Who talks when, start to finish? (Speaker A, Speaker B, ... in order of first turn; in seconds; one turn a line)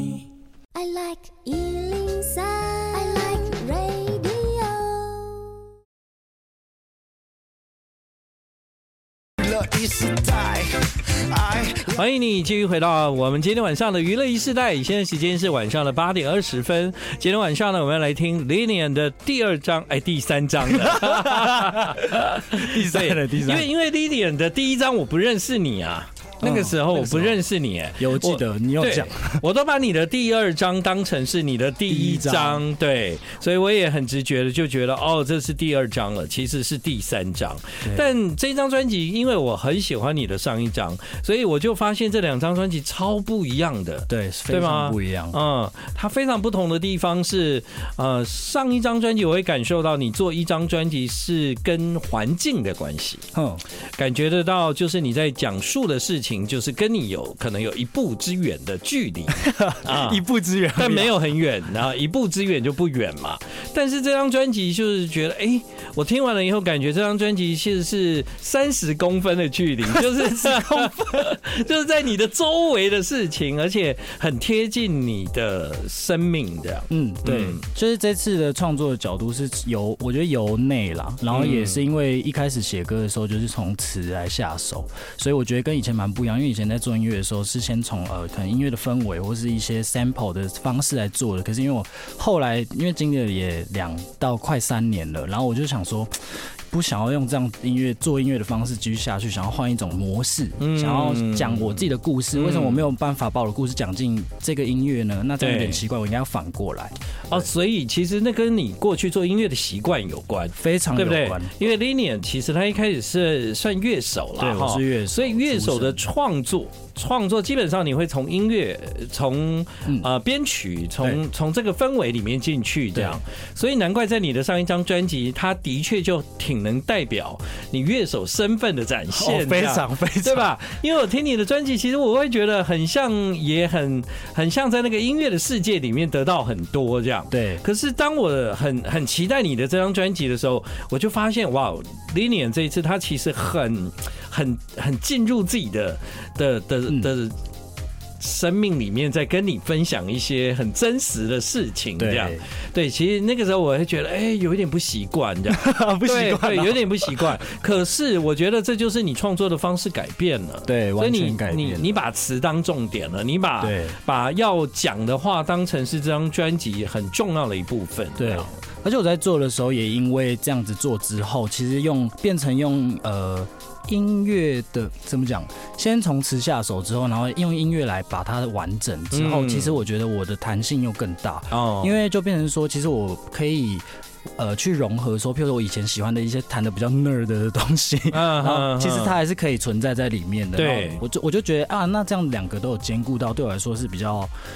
Speaker A: 0.7-5.6
Speaker B: 9.4-11.6
Speaker C: 11.6-53.3
Speaker D: 20.8-23.7
Speaker D: 26.4-27.4
Speaker D: 28.0-29.4
Speaker D: 31.9-32.6
Speaker D: 37.8-38.1
Speaker D: 44.1-45.4
Speaker D: 53.3-53.6
Speaker C: 54.0-77.6
Speaker D: 59.4-61.2
Speaker D: 70.0-71.2
Speaker D: 76.9-107.5
Speaker C: 81.3-81.8
Speaker C: 100.6-102.9
Speaker C: 105.4-105.8
Speaker C: 107.3-147.4
Speaker D: 110.6-111.6
Speaker D: 114.4-116.1
Speaker D: 129.1-130.5
Speaker D: 137.3-137.6
Speaker C: 148.2-168.6
Speaker D: 152.0-152.4
Speaker D: 155.5-157.3
Speaker D: 160.7-161.9
Speaker D: 163.6-164.0
Speaker D: 168.2-183.8
Speaker C: 179.1-179.8
Speaker C: 181.5-181.9
Speaker D: 184.4-194.3
Speaker C: 188.1-189.2
Speaker C: 190.6-191.0